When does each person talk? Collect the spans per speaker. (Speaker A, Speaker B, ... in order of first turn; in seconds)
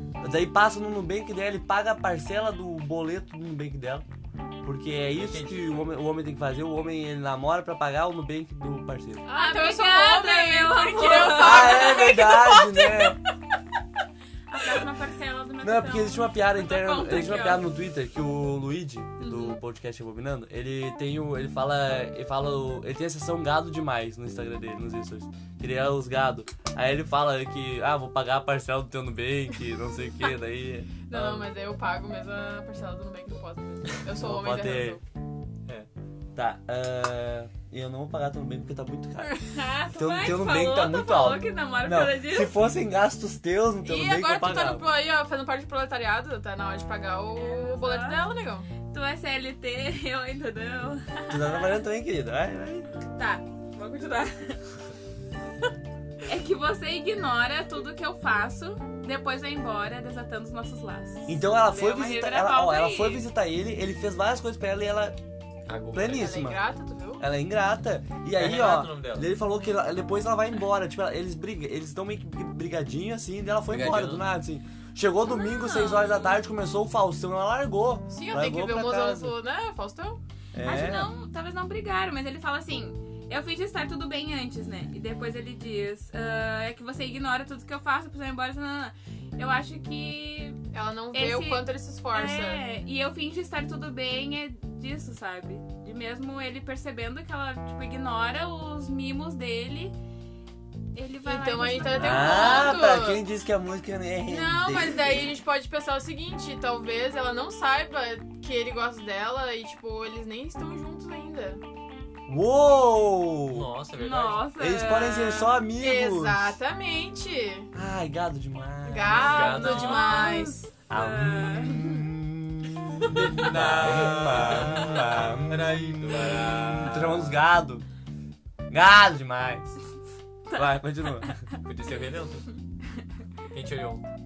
Speaker A: 0.2-4.0, 4.6-9.2, 11.3-13.2, 15.6-31.4, 34.2-35.0, 36.4-39.4, 40.0-44.9, 51.3-52.9, 61.3-65.2, 65.9-66.6, 67.2-79.3, 80.5-81.1, 102.0-105.3, 112.3-113.7, 114.6-116.6, 117.7-119.5, 120.9-127.8, 128.7-129.7, 130.5-131.3
Speaker B: 5.1-5.9, 65.7-66.4, 68.3-69.3, 73.7-74.2, 113.5-114.5, 119.1-120.3, 123.1-127.4, 131.6-132.5, 133.5-134.0
Speaker C: 9.2-13.2, 31.1-35.0, 43.8-48.7, 66.1-67.2, 78.1-80.2, 90.7-92.6, 101.2-103.2, 104.3-111.6, 115.8-117.7, 118.9-120.7
Speaker D: 9.3-12.0, 14.5-17.6, 19.2-19.6, 39.5-42.5, 47.4-48.2, 48.8-51.4, 53.2-54.6, 56.3-63.3, 75.3-76.4, 80.6-90.6, 91.1-100.0, 100.9-102.8, 114.0-115.6, 119.5-122.0, 130.5-131.4